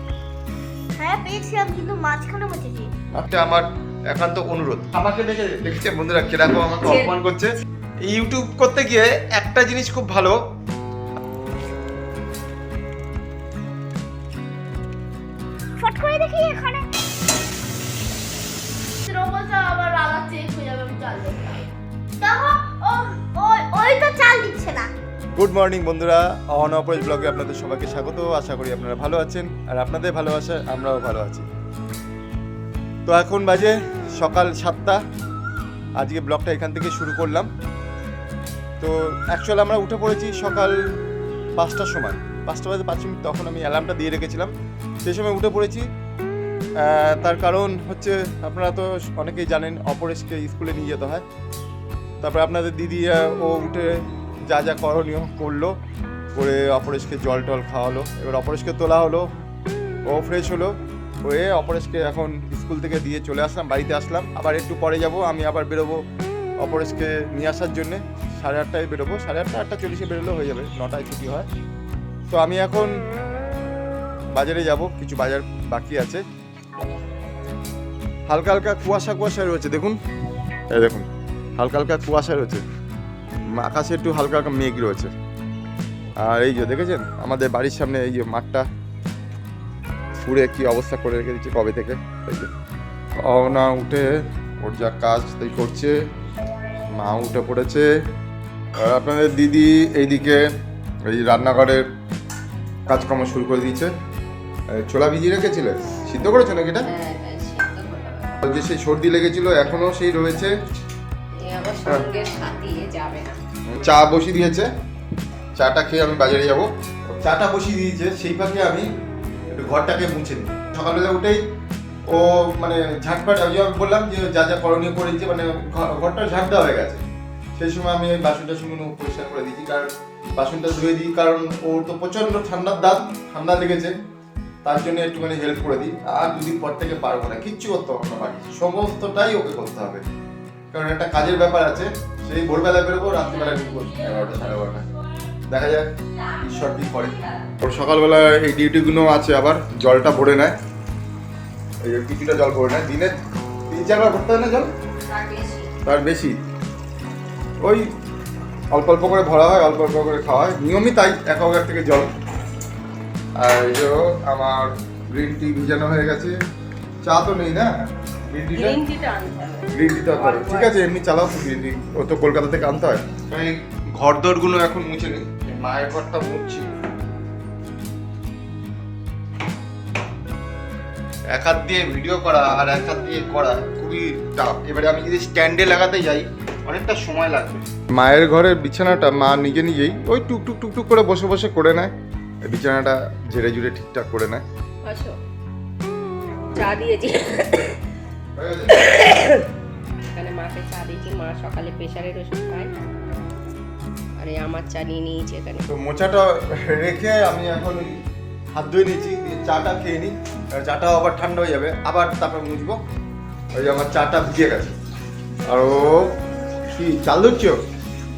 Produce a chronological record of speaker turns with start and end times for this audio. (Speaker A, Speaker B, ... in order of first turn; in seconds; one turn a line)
Speaker A: 1.0-2.9
Speaker B: 3.1-10.4
Speaker C: 6.8-7.1
Speaker A: 15.8-16.9
Speaker D: 19.1-21.6
Speaker A: 22.2-24.9
Speaker B: 25.4-31.5
Speaker B: 33.1-35.0
Speaker B: 36.0-37.5
Speaker B: 38.8-40.7
Speaker B: 41.6-44.5
Speaker B: 45.0-45.9
Speaker B: 46.8-51.2
Speaker B: 52.2-55.8
Speaker B: 56.4-59.3
Speaker B: 60.1-66.0
Speaker B: 66.6-71.5
Speaker B: 72.3-72.9
Speaker B: 74.3-76.2
Speaker B: 78.3-80.0
Speaker B: 80.7-81.0
Speaker B: 81.6-82.6
Speaker B: 83.5-85.1
Speaker B: 86.2-88.7
Speaker B: 90.2-92.5
Speaker B: 93.2-96.0
Speaker B: 96.9-97.9
Speaker B: 98.8-100.5
Speaker B: 101.1-101.9
Speaker B: 102.9-103.9
Speaker B: 104.7-106.9
Speaker C: 106.8-108.4
Speaker B: 108.4-110.5
Speaker C: 111.5-113.4
Speaker B: 113.7-114.7
Speaker B: 115.6-118.9
Speaker B: 119.5-121.4
Speaker B: 122.1-127.0
Speaker B: 127.6-133.9
Speaker B: 134.7-140.0
Speaker B: 140.7-144.8
Speaker C: 143.0-144.5
Speaker B: 145.5-145.9
Speaker C: 146.2-147.5
Speaker B: 146.4-150.5
Speaker B: 151.8-153.2
Speaker B: 153.7-154.7
Speaker C: 155.1-155.7
Speaker B: 155.8-156.4
Speaker B: 158.7-162.1
Speaker B: 163.4-166.4
Speaker B: 167.0-168.8
Speaker C: 168.5-170.8
Speaker B: 169.7-176.7
Speaker B: 181.3-191.9
Speaker B: 192.4-194.4
Speaker C: 194.8-195.2
Speaker C: 196.5-197.8
Speaker B: 198.3-198.9
Speaker C: 198.8-199.4
Speaker C: 200.1-202.7
Speaker C: 204.2-205.7
Speaker B: 205.7-208.0
Speaker B: 208.5-212.8
Speaker B: 213.6-214.8
Speaker B: 215.5-216.1
Speaker B: 216.7-217.6